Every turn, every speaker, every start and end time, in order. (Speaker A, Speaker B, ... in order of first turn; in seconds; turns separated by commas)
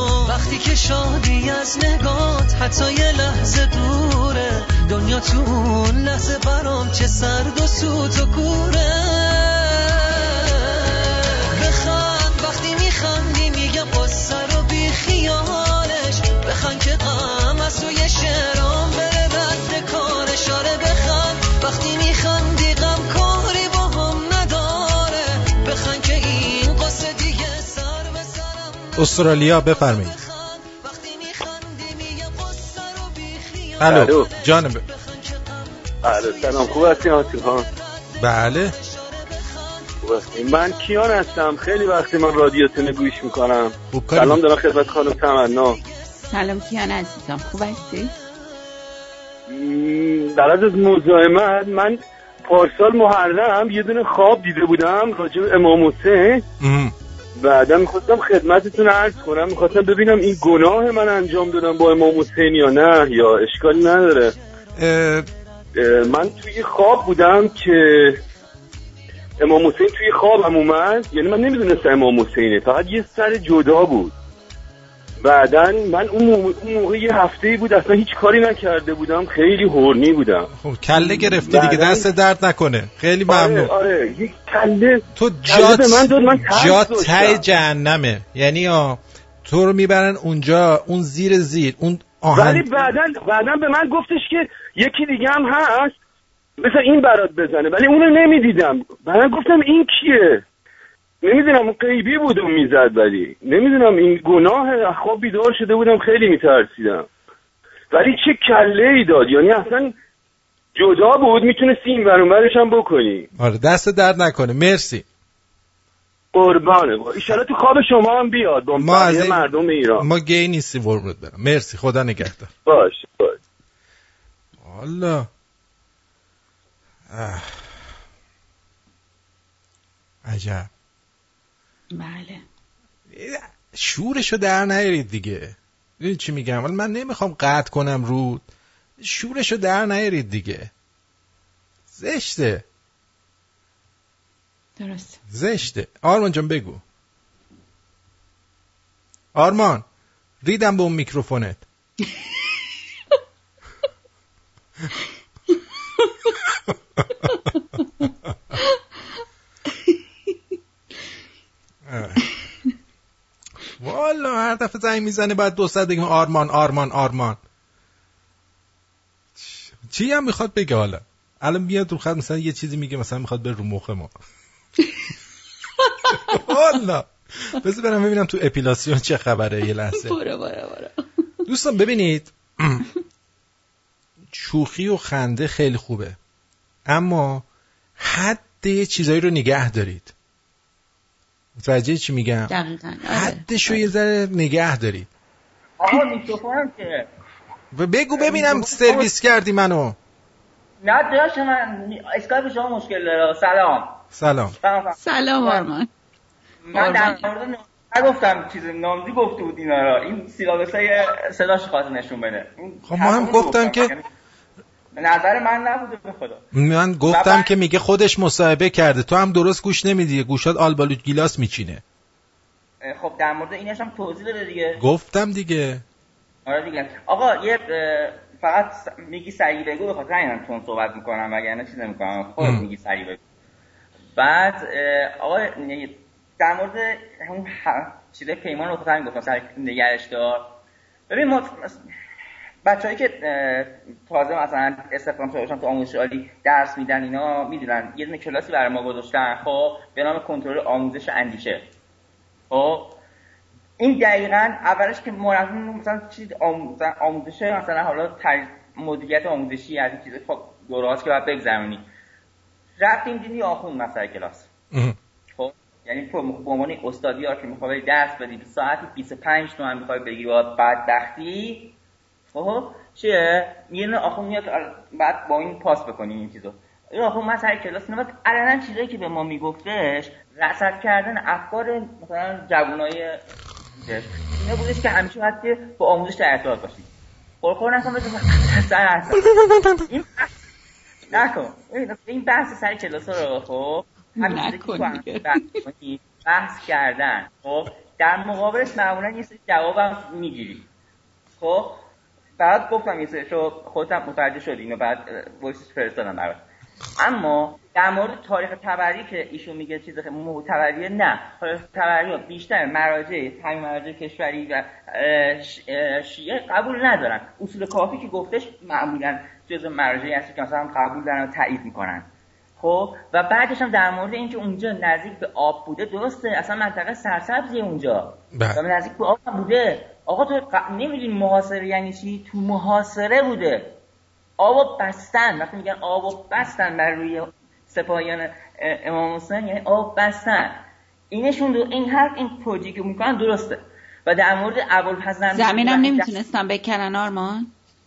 Speaker A: 0.2-29.0, Speaker B: 28.9-30.2, Speaker A: 30.1-37.0, Speaker B: 33.8-34.8, Speaker C: 33.8-34.3, Speaker C: 36.0-37.7, Speaker A: 37.8-38.1, Speaker B: 38.2-38.7, Speaker A: 38.7-39.9, Speaker C: 40.0-45.8, Speaker B: 43.9-44.4, Speaker D: 46.3-48.1, Speaker C: 49.5-56.4, Speaker B: 56.6-56.9, Speaker C: 57.4-64.3, Speaker B: 64.7-65.3, Speaker C: 65.8-68.2, Speaker C: 69.4-74.1, Speaker C: 75.2-80.5, Speaker B: 80.6-83.7, Speaker C: 81.4-82.0, Speaker C: 83.3-87.4, Speaker B: 85.2-92.7, Speaker C: 92.3-95.9, Speaker C: 96.6-100.4, Speaker C: 101.2-107.0, Speaker C: 107.9-109.9, Speaker C: 110.8-113.3, Speaker B: 113.4-115.0, Speaker C: 116.3-120.0, Speaker B: 118.8-122.5, Speaker C: 122.7-123.3, Speaker B: 124.6-125.3, Speaker B: 127.1-127.7, Speaker B: 130.2-130.7, Speaker D: 131.9-132.4, Speaker B: 133.1-138.5, Speaker B: 139.0-140.7, Speaker B: 141.9-142.6, Speaker D: 144.8-145.2, Speaker B: 145.3-146.8, Speaker B: 149.3-149.8, Speaker B: 150.4-151.6, Speaker B: 161.8-162.2, Speaker B: 163.8-167.4, Speaker B: 169.4-174.1, Speaker B: 176.3-180.2, Speaker D: 180.0-181.0, Speaker B: 181.4-182.8, Speaker B: 184.3-186.2, Speaker B: 186.9-187.4, Speaker B: 188.0-190.1, Speaker B: 191.6-192.5, Speaker D: 192.5-193.8, Speaker B: 193.0-195.1, Speaker E: 195.8-197.1, Speaker B: 197.7-200.0, Speaker E: 198.1-199.1, Speaker E: 200.8-204.0, Speaker B: 204.1-204.5, Speaker E: 204.6-205.7, Speaker D: 205.0-205.9, Speaker E: 206.6-214.1, Speaker D: 206.8-207.2, Speaker B: 212.9-213.9, Speaker E: 214.9-216.4, Speaker B: 216.5-221.8, Speaker E: 217.1-217.5, Speaker E: 222.8-224.8, Speaker B: 224.8-225.8, Speaker E: 226.4-233.2, Speaker E: 234.2-240.5, Speaker E: 241.1-241.8, Speaker E: 242.6-251.7, Speaker E: 252.5-253.0, Speaker E: 253.8-261.8, Speaker E: 262.8-264.5, Speaker E: 265.4-271.7, Speaker E: 272.3-283.2, Speaker E: 283.8-286.9, Speaker E: 287.4-289.2, Speaker E: 289.9-290.3, Speaker E: 291.1-300.7, Speaker D: 294.2-295.4, Speaker E: 301.4-301.8, Speaker E: 302.4-306.4, Speaker E: 307.0-322.1, Speaker E: 322.6-333.8, Speaker B: 328.3-328.6, Speaker E: 334.4-346.1, Speaker D: 345.3-347.5